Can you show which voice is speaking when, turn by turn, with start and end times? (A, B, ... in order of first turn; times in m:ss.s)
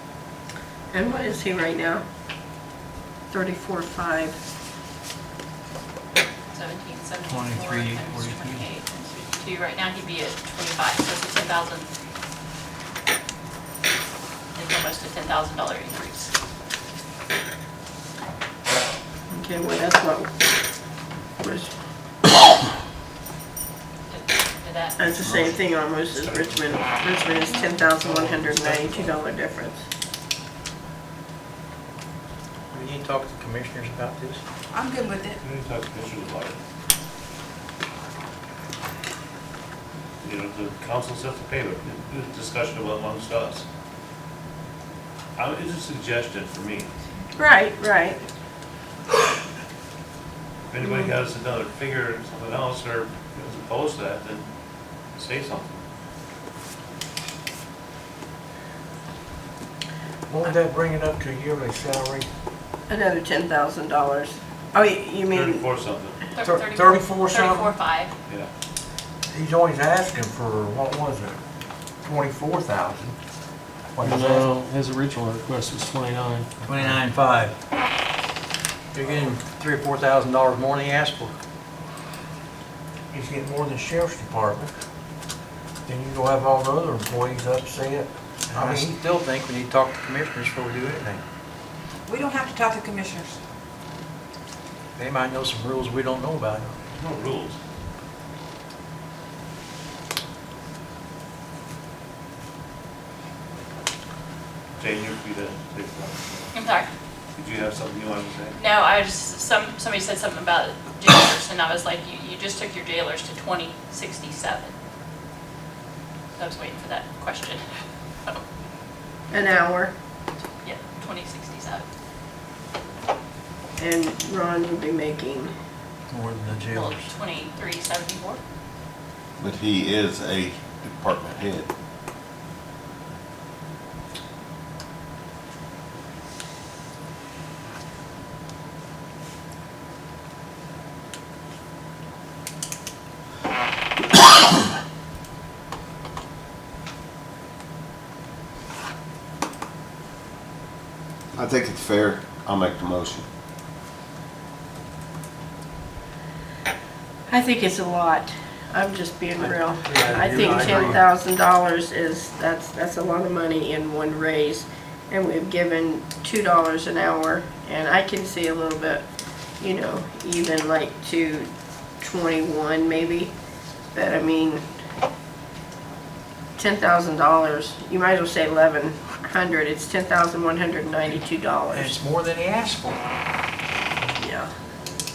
0:00.9-0:02.0 A
0:03.3-0:04.4 A
0:06.5-0:11.9 B
0:07.3-0:08.7 C
0:14.5-0:16.3 B
0:19.3-0:20.3 A
0:21.4-0:21.7 A
0:24.1-0:25.0 B
0:25.0-0:29.8 A
0:25.2-0:25.6 D
0:26.1-0:29.2 D
0:32.7-0:34.4 C
0:34.7-0:35.4 E
0:35.4-0:36.6 D
0:40.2-0:43.6 D
0:45.4-0:46.9 D
0:47.4-0:48.2 A
0:50.7-0:54.5 D
0:50.8-0:51.1 A
0:55.2-0:55.8 D
1:00.3-1:02.3 F
1:02.9-1:05.6 A
1:05.3-1:06.2 D
1:06.3-1:08.1 B
1:06.4-1:07.7 F
1:09.3-1:11.4 F
1:12.0-1:13.2 F
1:13.9-1:14.5 F
1:14.0-1:17.0 G
1:16.6-1:17.5 C
1:18.9-1:21.3 C
1:23.1-1:24.7 F
1:25.9-1:29.0 F
1:28.5-1:31.2 C
1:32.0-1:33.4 E
1:35.0-1:36.8 C
1:37.0-1:37.6 D
1:44.8-1:46.5 D
1:46.5-1:46.9 B
1:47.4-1:48.6 D
1:48.6-1:54.7 B
1:56.4-1:57.6 B
1:59.3-1:59.9 A
2:00.6-2:01.8 B
2:03.8-2:05.5 A
2:06.1-2:07.0 C
2:06.7-2:08.4 B
2:09.4-2:11.7 H
2:31.3-2:33.2 H
2:37.3-2:49.0 A
2:39.4-2:41.0 C
2:49.6-2:51.5 A
2:52.0-2:53.3 A
2:53.9-2:54.6 A
2:56.6-3:02.0 A
3:01.7-3:03.0 C
3:04.2-3:04.5 A